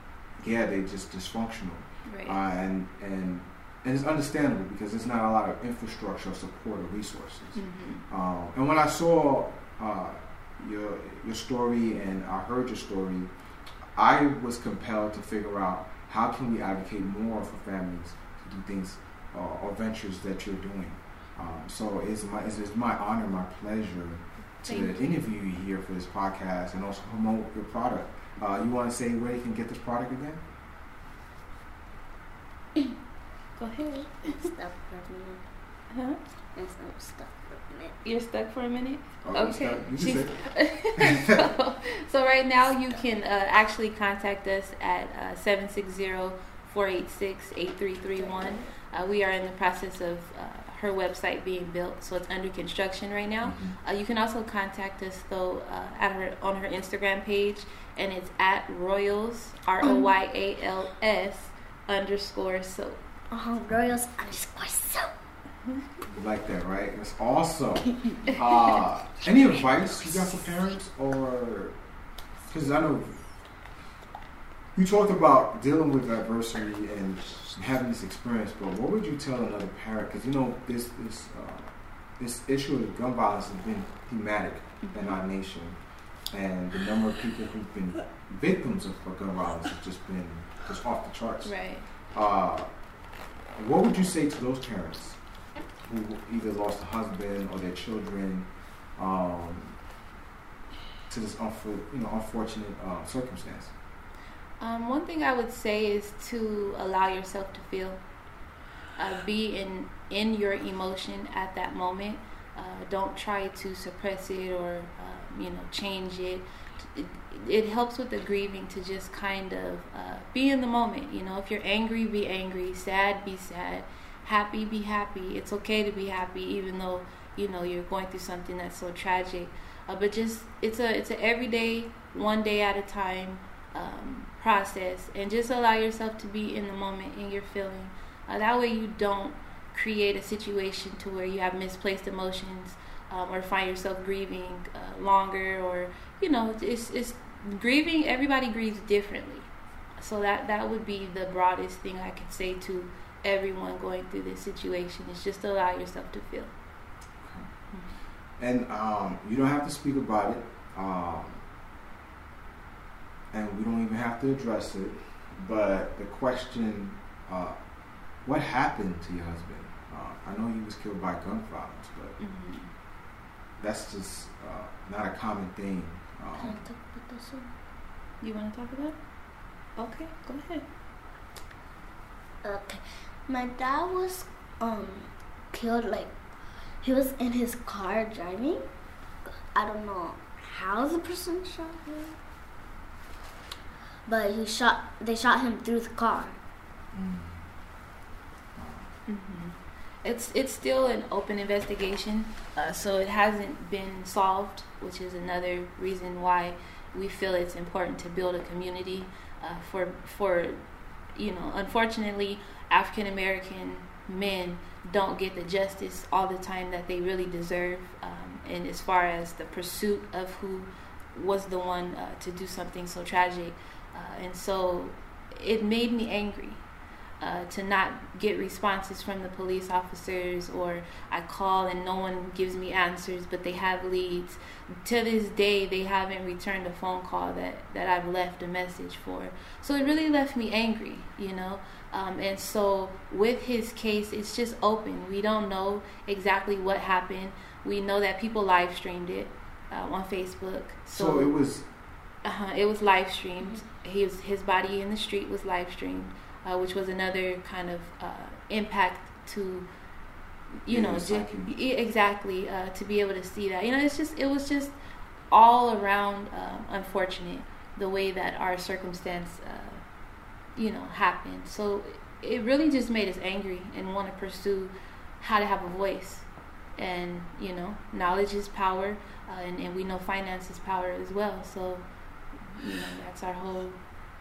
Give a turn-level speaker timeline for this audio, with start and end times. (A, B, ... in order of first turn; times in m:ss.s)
0:00.4-0:13.3 A
0:02.1-0:02.4 B
0:07.6-0:08.1 B
0:14.0-0:30.4 A
0:24.7-0:25.0 B
0:33.6-0:34.5 B
0:34.2-0:35.4 C
0:35.9-0:36.2 B
0:36.6-0:38.0 C
0:38.0-1:03.0 B
0:39.2-0:40.3 A
0:41.0-0:41.5 A
0:48.2-0:48.6 C
0:53.4-0:53.8 A
0:59.8-1:00.1 C
1:03.3-1:05.1 C
1:06.1-1:11.8 A
1:12.5-1:13.2 A
1:14.8-1:25.8 A
1:24.8-1:25.2 B
1:26.3-1:31.5 A
1:31.4-1:31.9 B
1:32.1-1:32.7 A
1:33.6-1:35.2 A
1:35.9-1:39.8 A
1:41.1-1:43.7 A
1:44.6-1:48.0 B
1:49.0-2:36.5 B
2:37.2-2:37.5 A
2:38.4-2:41.4 A
2:43.3-2:47.6 A
2:48.2-2:52.2 A
2:52.2-2:52.7 B
2:53.6-2:56.6 A
2:56.4-2:57.5 C
2:58.2-2:59.0 B
2:59.8-3:00.6 B
3:02.4-3:06.1 C
3:06.8-3:08.6 C
3:09.2-3:12.2 C
3:14.1-3:16.4 C
3:16.9-3:17.4 A
3:18.6-3:18.9 A
3:19.1-3:30.6 B
3:31.2-3:46.6 B
3:47.2-4:11.3 B
4:10.9-4:11.6 A
4:12.2-4:19.7 B
4:20.6-4:24.7 B
4:20.7-4:21.5 A
4:25.3-4:29.8 B
4:30.6-4:41.9 B
4:42.5-4:43.8 B